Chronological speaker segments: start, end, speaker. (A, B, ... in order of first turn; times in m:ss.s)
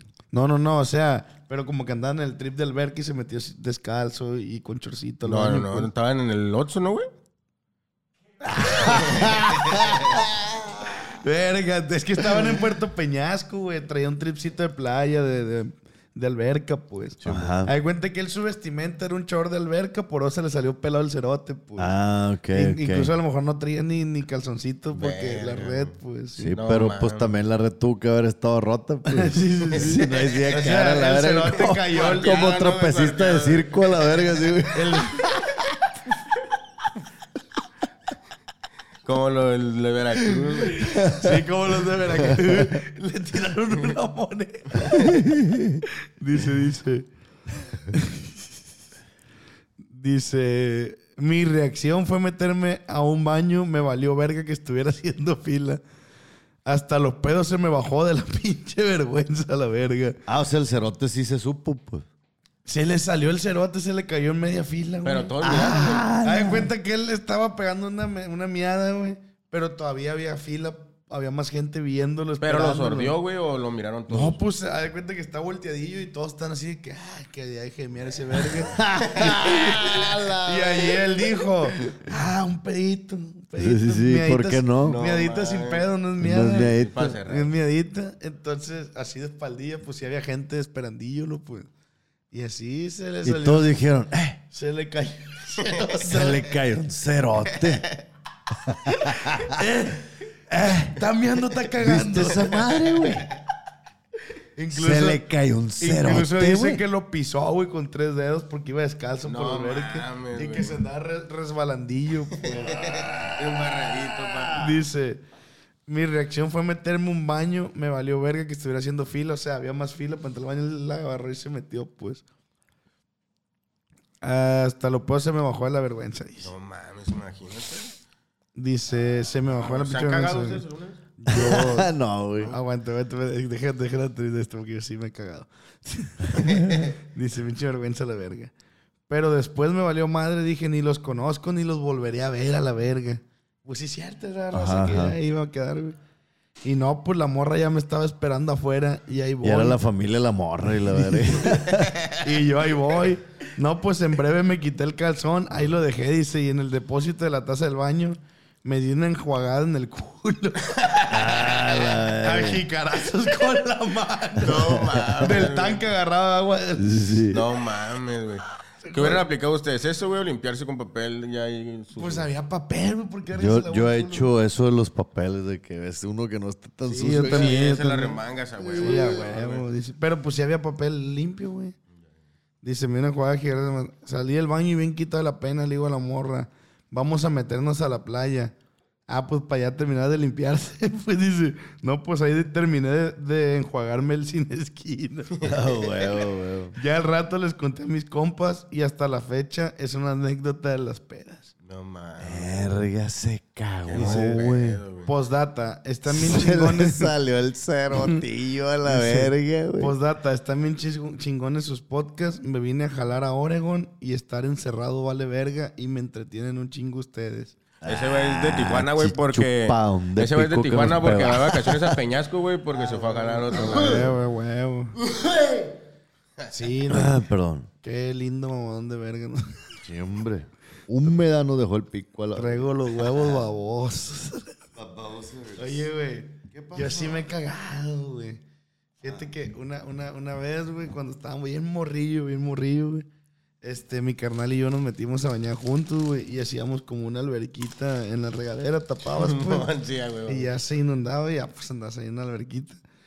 0:00.3-0:05.9 A
0:05.2-0:07.1 B
0:08.5-0:09.9 A
0:08.7-0:11.1 C
0:11.1-0:21.9 A
0:17.2-0:17.7 C
0:21.8-0:23.1 C
0:22.5-0:26.5 A
0:24.9-0:25.9 B
0:26.4-0:35.4 C
0:26.5-0:27.3 B
0:29.0-0:32.4 A
0:29.8-0:30.6 B
0:31.8-0:33.9 B
0:34.7-0:35.3 A
0:39.0-0:40.9 B
0:40.8-0:41.4 C
0:41.0-0:45.2 A
0:42.3-0:42.7 C
0:44.9-0:45.8 C
0:46.2-0:47.1 A
0:47.9-0:48.2 A
0:49.9-0:55.8 A
0:56.6-1:00.2 A
1:00.3-1:02.1 C
1:02.6-1:05.3 A
1:05.0-1:06.0 B
1:05.4-1:06.7 C
1:06.2-1:13.1 A
1:12.4-1:14.4 B
1:14.1-1:26.7 A
1:18.6-1:21.2 C
1:23.6-1:25.0 C
1:24.8-1:25.9 B
1:26.2-1:27.2 C
1:26.6-1:27.5 B
1:27.2-1:31.7 A
1:32.3-1:33.7 A
1:33.2-1:34.4 C
1:34.5-1:36.5 A
1:36.0-1:37.9 C
1:38.7-1:39.6 C
1:39.3-1:42.6 A
1:40.5-1:41.0 C
1:41.8-1:43.3 C
1:44.6-1:45.2 A
1:44.7-1:46.8 C
1:45.8-1:52.9 A
1:49.2-1:50.8 B
1:52.4-1:54.7 B
1:54.6-1:55.2 A
1:55.9-2:02.2 A
2:04.2-2:06.5 A
2:06.4-2:07.9 B
2:08.6-2:10.6 A
2:09.5-2:11.0 B
2:11.2-2:18.5 A
2:11.3-2:12.6 C
2:19.1-2:26.0 A
2:24.5-2:25.2 C
2:26.6-2:29.8 A
2:29.4-2:32.0 C
2:30.9-2:31.6 A
2:32.2-2:40.7 A
2:40.8-2:41.2 B
2:41.1-2:42.6 C
2:42.1-2:44.7 A
2:44.4-2:45.8 B
2:44.5-2:45.3 C
2:45.2-2:46.9 A
2:46.8-2:47.4 C
2:47.3-2:52.3 B
2:48.8-2:49.2 A
2:52.0-2:54.3 A
2:53.3-2:57.6 C
2:56.8-2:58.2 A
2:57.1-2:59.6 B
2:58.7-2:59.2 C
2:58.8-3:01.7 A
3:02.6-3:08.5 A
3:09.1-3:15.3 A
3:15.4-3:16.1 B
3:15.4-3:16.7 C
3:16.8-3:21.5 A
3:21.6-3:22.8 B
3:22.2-3:24.8 C
3:23.8-3:25.1 B
3:24.0-3:24.4 A
3:25.0-3:27.1 A
3:26.1-3:29.9 C
3:27.9-3:28.2 A
3:28.8-3:37.6 A
3:37.8-3:42.0 C
3:37.8-3:44.1 B
3:42.8-3:45.0 A
3:45.1-3:45.6 C
3:46.5-3:47.2 A
3:46.9-3:47.7 C
3:47.8-3:49.6 A
3:49.8-3:53.3 C
3:52.3-3:54.5 A
3:54.7-3:55.9 C
3:55.6-3:58.4 A
3:56.5-3:57.3 C
3:59.0-4:03.1 A
4:03.6-4:09.7 A
4:09.1-4:10.5 B
4:10.3-4:12.8 A